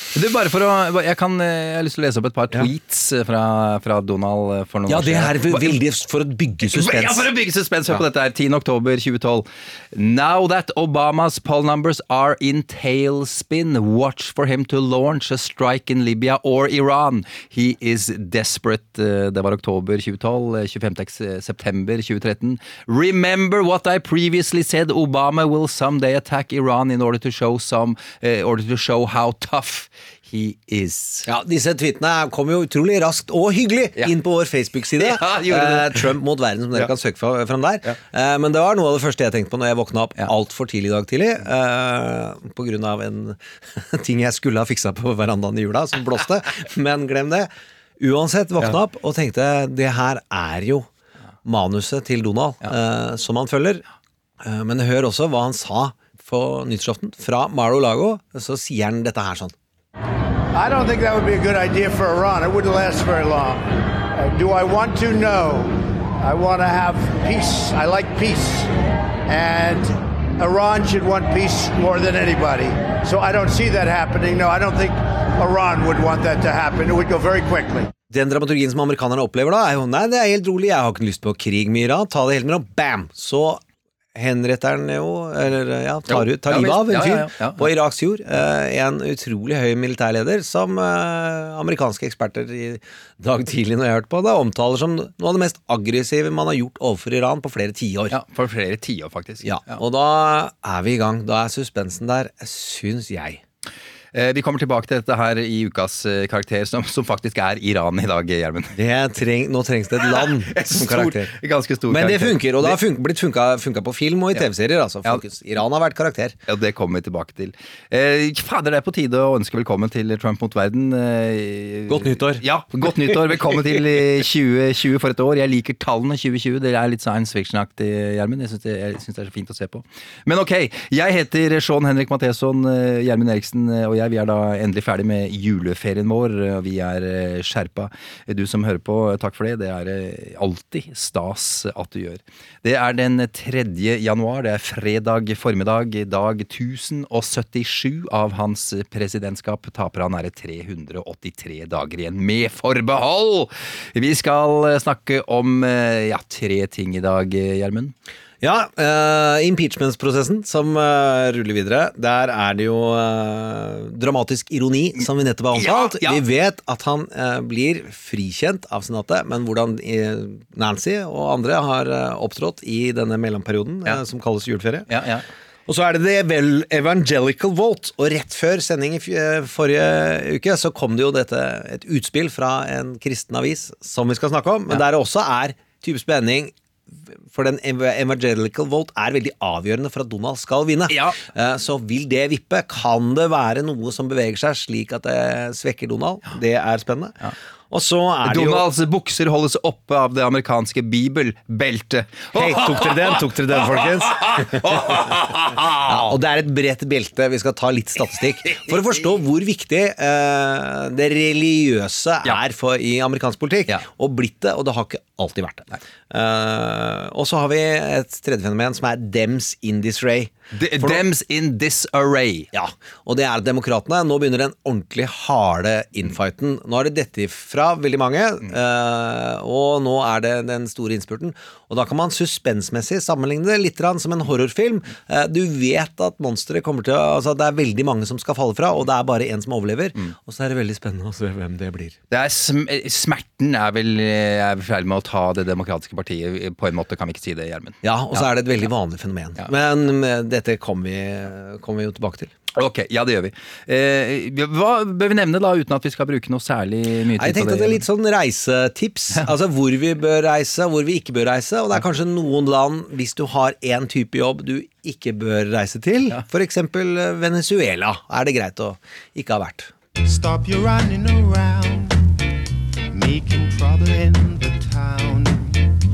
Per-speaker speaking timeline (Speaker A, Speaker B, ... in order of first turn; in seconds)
Speaker A: 0.1-5.8, 6.6-31.3, 35.0-36.0, 86.1-87.7, 98.1-99.8, 104.1-108.8, 110.0-112.8, 116.5-157.9, 165.5-166.2, 174.9-175.3, 190.9-191.2, 198.2-206.2, 220.5-222.5, 242.1-248.2, 252.6-257.8
Speaker B: 4.9-7.3, 31.2-50.9, 51.5-53.8, 54.4-59.5, 78.1-83.6, 84.2-98.2, 99.4-103.4, 108.7-111.3, 111.9-116.4, 121.9-122.4, 123.1-123.6, 158.4-174.9, 175.7-186.5, 187.3-197.2, 197.7-198.7, 202.3-221.0, 222.5-242.0, 247.8-252.3, 257.2-269.7
Speaker C: 60.5-68.7, 69.3-77.9
Speaker D: 270.0-272.1, 272.9-275.7